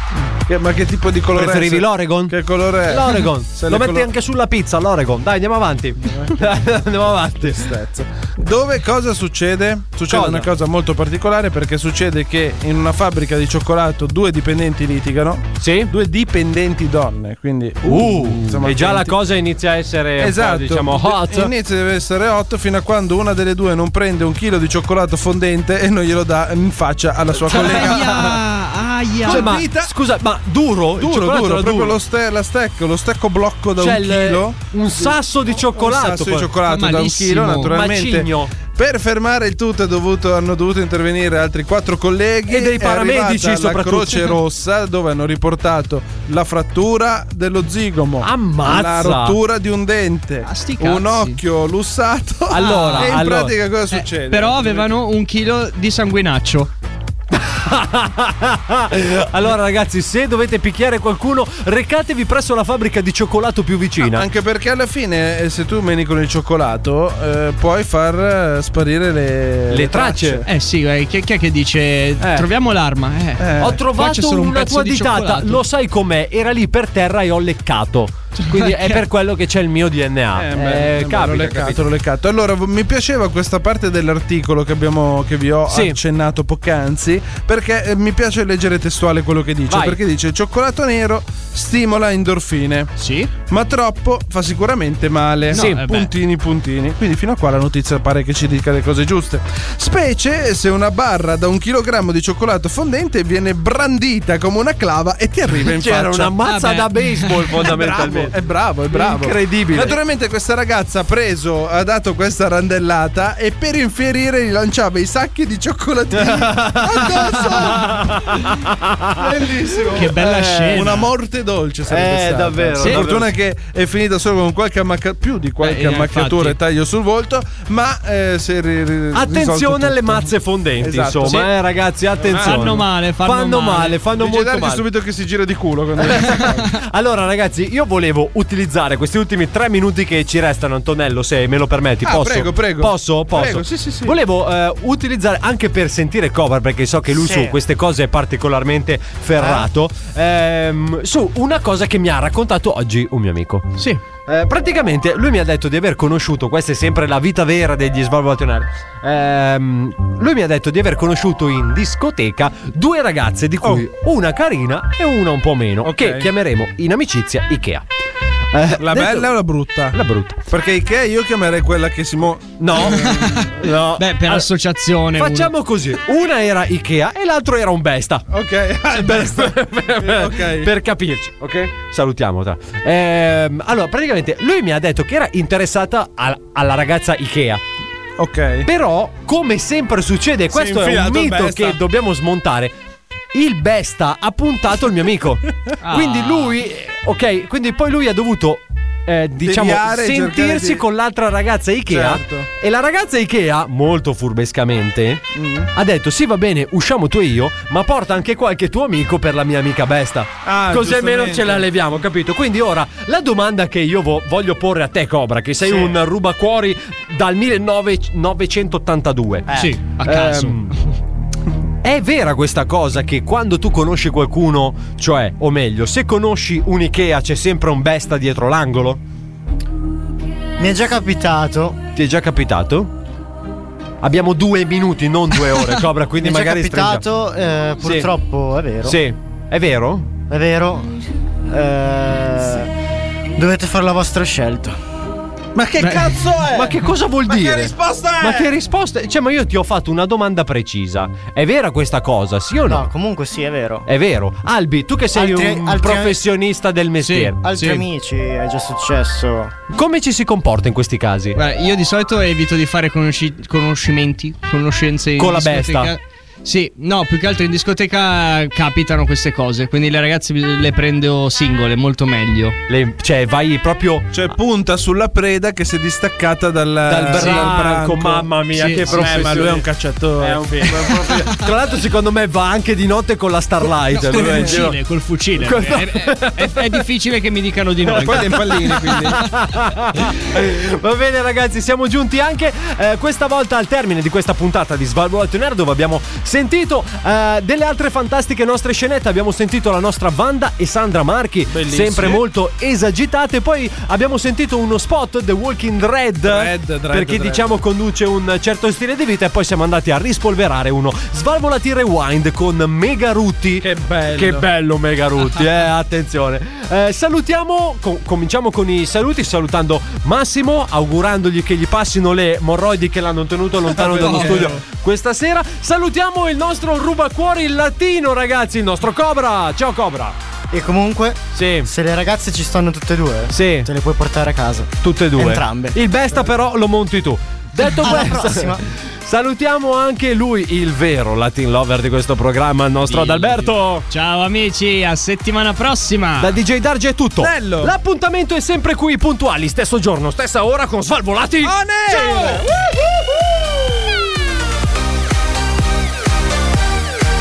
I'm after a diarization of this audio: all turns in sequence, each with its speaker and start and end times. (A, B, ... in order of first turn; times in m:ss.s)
0:00.5-0:04.1 A
0:01.3-0:07.6 B
0:06.1-0:06.4 A
0:07.4-0:19.2 A
0:10.1-0:10.5 B
0:15.6-0:15.9 B
0:17.8-0:21.5 B
0:20.2-0:28.4 A
0:27.5-0:29.6 C
0:27.5-0:28.3 B
0:29.2-0:29.9 A
0:29.2-0:32.0 B
0:31.0-0:54.9 A
0:33.8-0:36.5 B
0:36.6-0:37.8 C
0:37.6-0:38.5 B
0:42.5-0:44.4 B
0:48.2-0:49.4 B
0:50.4-0:51.4 C
0:52.5-0:53.5 B
0:52.6-0:53.2 C
0:53.9-0:56.7 C
0:57.4-1:04.3 B
1:04.0-1:10.5 A
1:09.7-1:10.4 B
1:10.5-1:15.6 C
1:12.2-1:12.5 B
1:13.4-1:13.8 A
1:13.6-1:21.8 B
1:18.4-1:19.0 C
1:20.4-1:32.9 A
1:25.7-1:26.0 B
1:29.7-1:30.0 B
1:33.0-1:33.3 C
1:33.5-1:46.4 A
1:35.5-1:36.1 C
1:35.5-1:35.8 B
1:45.7-1:48.3 B
1:46.4-1:47.6 C
1:47.6-1:58.6 A
1:48.9-1:50.0 B
1:56.1-1:59.2 B
1:59.2-2:11.5 A
1:59.9-2:01.1 C
2:00.2-2:00.9 B
2:01.9-2:03.3 B
2:02.8-2:03.1 C
2:05.6-2:06.6 C
2:09.1-2:14.8 B
2:12.2-2:12.9 A
2:12.3-2:14.0 C
2:14.0-2:16.8 A
2:16.0-2:47.9 B
2:22.0-2:24.2 A
2:27.1-2:27.6 D
2:29.4-2:29.7 D
2:45.8-2:46.3 A
2:48.5-2:49.3 B
2:48.8-2:53.5 A
2:49.9-2:50.4 B
2:52.6-2:54.5 B
2:53.0-2:55.5 C
2:55.1-2:58.3 B
2:58.3-3:00.7 A
2:58.9-3:07.6 B
3:08.2-3:08.7 A
3:08.7-3:12.7 B
3:10.5-3:11.8 A
3:13.3-3:40.8 B
3:15.8-3:16.6 C
3:19.4-3:20.8 A
3:21.9-3:22.5 A
3:25.4-3:25.7 A
3:30.4-3:31.7 A
3:35.6-3:35.9 A
3:39.5-3:40.8 C
3:41.8-3:49.0 B
3:50.6-3:51.8 D
3:52.0-3:52.9 B
3:54.0-3:57.1 B
3:56.2-3:59.0 D
3:57.8-3:58.1 B
3:58.8-4:00.1 B
4:00.3-4:02.7 D
4:03.4-4:04.8 D
4:05.6-4:08.5 A
4:05.8-4:06.2 C
4:06.5-4:12.9 B
4:12.7-4:13.9 D
4:13.9-4:17.4 B
4:15.1-4:16.2 D
4:17.0-4:17.8 C
4:17.4-4:19.5 D
4:19.7-4:21.4 B
4:21.4-4:32.6 C
4:25.2-4:25.9 B
4:32.7-4:34.4 B
4:34.1-4:38.3 A
4:36.9-4:39.7 B
4:37.1-4:37.6 C
4:38.5-4:39.5 C
4:38.8-4:41.3 A
4:40.2-4:44.8 B
4:43.9-4:49.0 C
4:44.1-4:44.6 A
4:45.4-4:46.8 B
4:47.9-4:49.2 A
4:47.9-5:30.2 B
5:01.5-5:02.2 A
5:06.2-5:07.5 A
5:13.6-5:14.4 A
5:23.7-5:24.6 A
5:23.9-5:24.6 C
5:30.5-5:35.8 D
5:31.3-5:31.7 B
5:33.3-5:33.7 B
5:34.8-5:43.9 B
5:37.8-5:38.6 D
5:42.9-5:46.3 C
5:46.2-5:52.4 B
5:47.2-5:47.7 A
5:51.4-5:52.5 A